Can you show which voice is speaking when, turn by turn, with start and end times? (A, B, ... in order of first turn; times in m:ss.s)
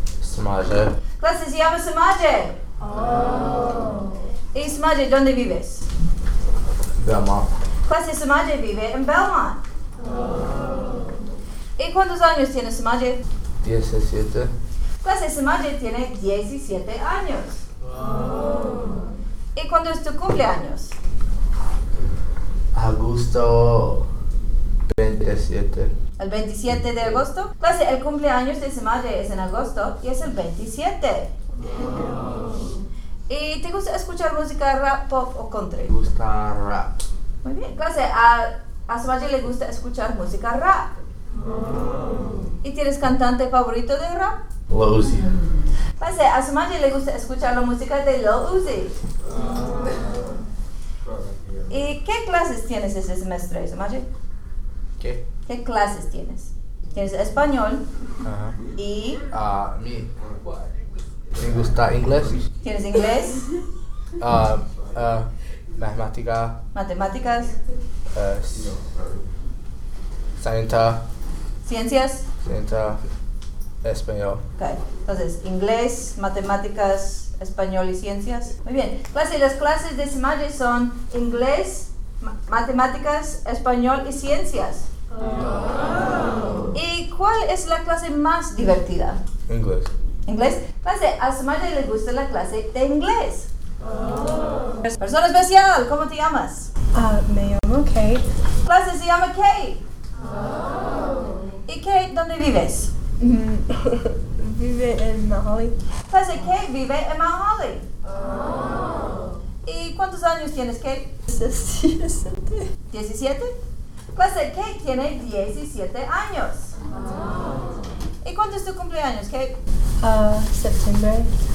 0:00.2-0:01.0 A
0:01.2-0:02.6 B
0:04.5-0:05.9 B
0:07.0-0:07.5 A
0:07.9-0:09.6 B
0:11.8-0:13.2 B
0:13.6-0:14.5 A
0:15.0-0:17.6 B
0:19.5-0:21.0 B
0:22.7-0:24.0 A
0:24.9-0:25.9 A
0:26.2-0:31.3 B
0:33.3-0:35.9 B
0:35.9-0:37.0 A
0:37.4-0:40.9 B
0:42.6-0:44.4 B
0:44.7-0:45.3 A
0:46.0-0:49.0 B
0:51.7-0:54.0 B
0:55.4-0:57.8 B
0:58.2-0:58.6 A
0:58.8-0:59.2 B
0:59.3-1:00.1 A
1:01.3-1:02.4 A
1:02.6-1:03.5 B
1:04.2-1:06.6 A
1:06.7-1:07.6 B
1:08.1-1:08.8 A
1:10.4-1:11.0 A
1:11.6-1:12.3 B
1:12.4-1:13.0 A
1:13.8-1:14.4 A
1:14.6-1:24.9 B
1:26.7-1:29.2 B
1:29.5-1:29.9 A
1:30.2-1:33.5 B
1:35.0-1:36.7 B
1:36.9-1:38.2 C
1:38.6-1:39.8 B
1:41.7-1:42.9 B
1:43.2-1:45.8 C
1:46.1-1:47.9 B
1:49.6-1:51.1 B
1:51.3-1:52.7 C
1:52.9-1:53.6 B
1:54.1-1:56.8 B
1:58.2-1:59.6 B
2:00.0-2:01.3 C